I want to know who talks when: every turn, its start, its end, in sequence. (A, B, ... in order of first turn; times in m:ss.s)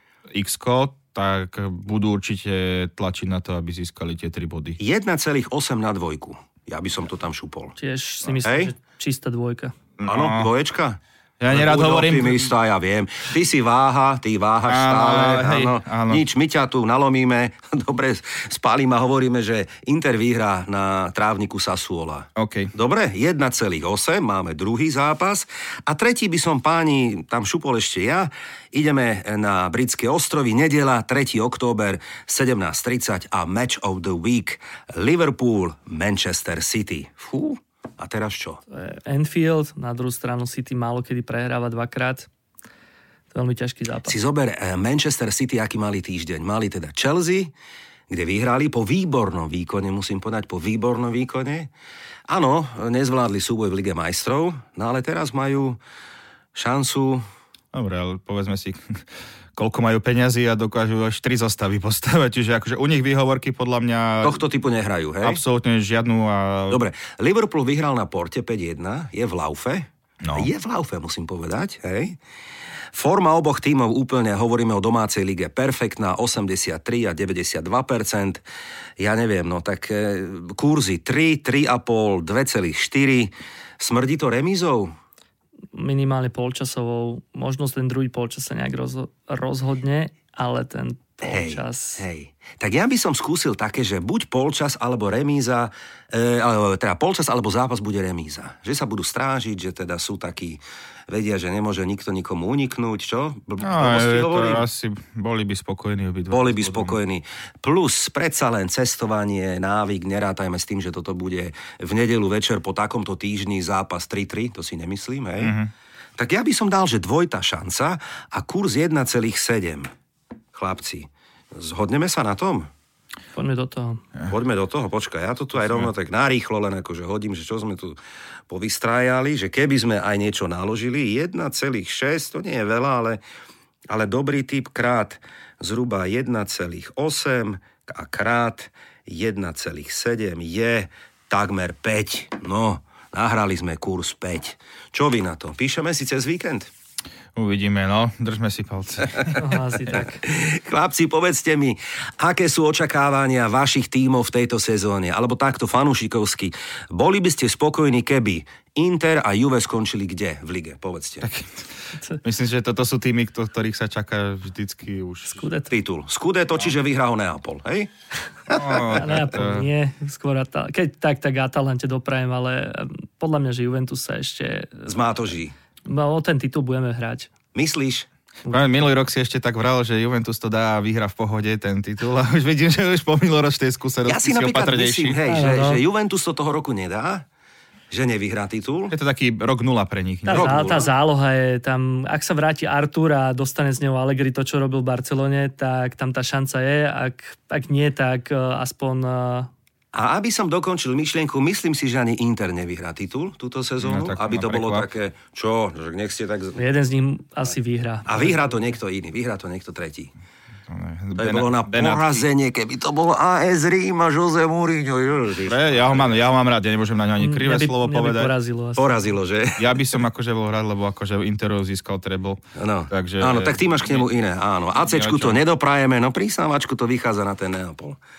0:00.3-0:04.8 A
0:04.8-0:07.8 B
0:07.8-0:09.7 C
0:08.4-0:08.7 B
0:10.0-0:10.5 A
0:10.1-0:38.6 B
0:11.4-0:12.5 A
0:14.7-0:16.2 A
0:22.4-0:22.7 A
0:38.7-0:42.3 C
0:43.3-0:44.2 C
0:44.1-0:47.5 B
0:48.1-0:51.7 B
0:52.3-0:55.8 B
0:56.5-0:57.2 B
0:57.7-1:04.4 A
1:04.2-1:05.4 B
1:05.2-1:06.8 A
1:06.7-1:12.2 B
1:10.2-1:10.5 A
1:12.9-1:18.4 B
1:19.0-1:24.9 B
1:25.8-1:32.0 C
1:31.2-1:44.6 B
1:43.6-1:47.0 A
1:46.3-1:55.6 B
1:55.4-1:55.7 A
1:56.2-1:59.9 B
2:00.5-2:02.7 B
2:03.4-2:04.0 C
2:04.3-2:08.0 B
2:05.6-2:05.9 A
2:08.5-2:13.2 B
2:13.9-2:26.7 B
2:27.4-2:29.6 A
2:29.4-2:30.2 C
2:30.2-2:41.3 B
2:41.2-2:41.7 A
2:42.2-2:45.5 A
2:45.3-2:45.8 C
2:45.7-2:47.9 B
2:48.5-2:49.1 B
2:48.5-2:49.7 A
2:48.8-2:55.0 C
2:54.9-2:55.5 B
2:55.8-2:57.3 C
2:57.6-2:58.1 B
2:58.5-3:05.2 A
3:04.1-3:07.3 B
3:05.3-3:05.8 C
3:07.9-3:09.0 B
3:08.9-3:10.7 A
3:10.3-3:19.5 C
3:10.3-3:10.9 B
3:19.9-3:26.6 B
3:23.8-3:24.9 A
3:26.6-3:28.6 C
3:28.1-3:30.1 B
3:30.7-3:32.3 A
3:31.2-3:36.0 B
3:35.5-3:38.3 A
3:37.2-3:39.0 C
3:38.8-3:39.8 B
3:39.6-3:45.4 A
3:42.6-3:48.0 B